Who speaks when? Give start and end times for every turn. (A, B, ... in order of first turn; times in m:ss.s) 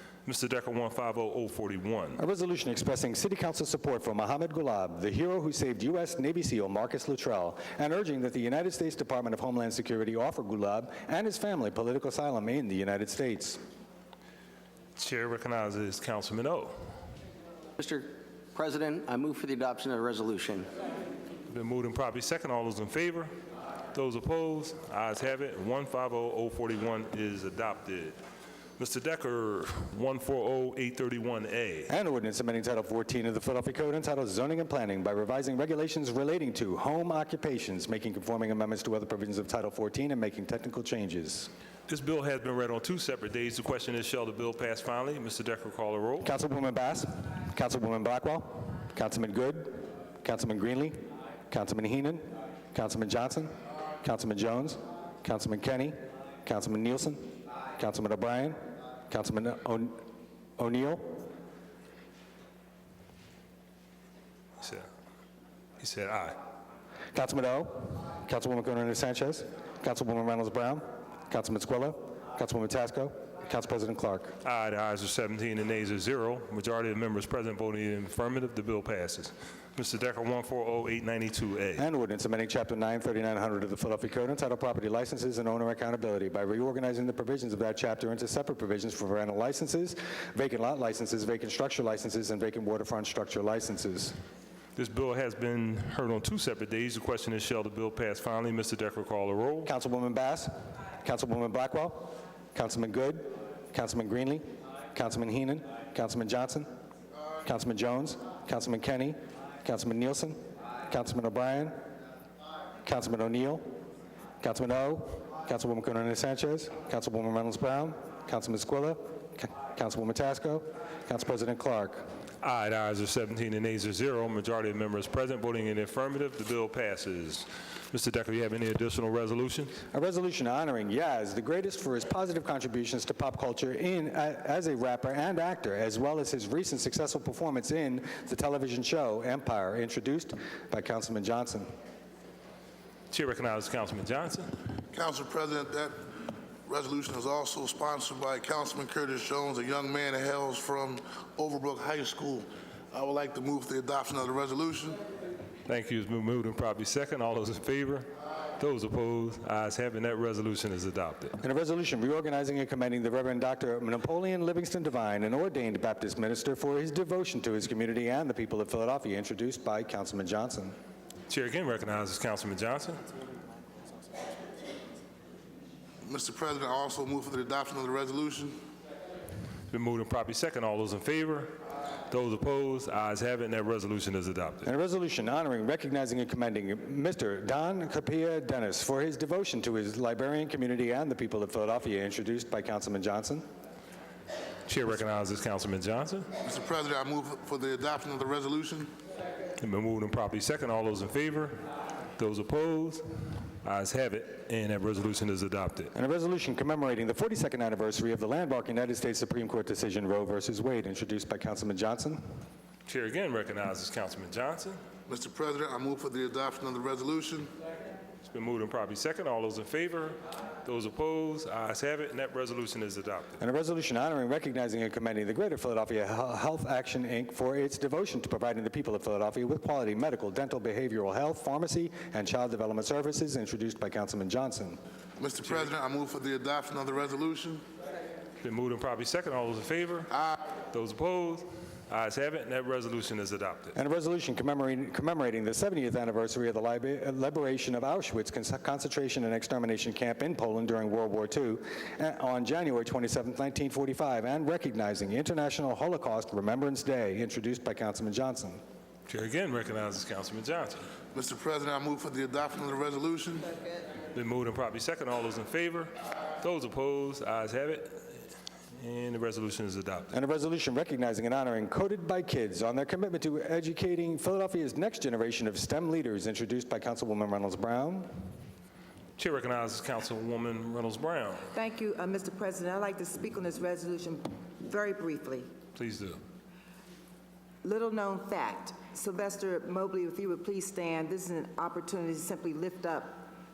0:00.2-0:02.2 A
0:02.2-0:13.6 B
0:15.0-0:16.8 A
0:17.8-0:20.7 C
0:21.5-0:23.3 A
0:23.9-0:28.2 A
0:28.8-0:31.9 A
0:31.9-0:41.5 B
0:41.9-0:46.3 A
0:46.2-1:00.0 B
1:00.6-1:01.2 B
1:04.6-1:04.9 A
1:05.8-1:06.4 A
1:07.1-1:14.4 B
1:14.4-1:21.8 A
1:21.8-1:34.2 B
1:34.8-1:39.7 A
1:39.6-1:46.7 B
1:47.4-1:51.8 B
1:52.8-1:53.6 B
1:54.4-2:02.0 B
2:02.4-2:09.8 A
2:09.9-2:21.7 B
2:23.1-2:24.5 A
2:24.9-2:26.0 D
2:26.7-2:35.0 D
2:35.7-2:38.1 A
2:38.6-2:41.4 A
2:41.4-2:50.8 B
2:51.3-2:53.0 A
2:56.0-2:58.6 D
2:59.7-3:01.6 A
3:02.1-3:04.7 A
3:04.6-3:13.4 B
3:14.7-3:16.3 A
3:16.4-3:18.9 D
3:19.6-3:21.6 A
3:22.2-3:23.0 A
3:23.6-3:25.9 A
3:26.0-3:32.2 B
3:32.9-3:34.8 A
3:35.1-3:37.5 D
3:38.2-3:43.4 A
3:43.4-3:54.8 B
3:55.2-3:57.6 D
3:58.4-4:00.1 A
4:00.7-4:03.8 A
4:03.8-4:18.6 B
4:19.1-4:20.9 A
4:21.1-4:23.6 D
4:24.1-4:28.1 A
4:28.8-4:30.1 A
4:30.1-4:38.1 B
4:39.2-4:41.5 A
4:41.5-4:45.5 E
4:45.8-4:46.2 A
4:47.6-4:53.3 E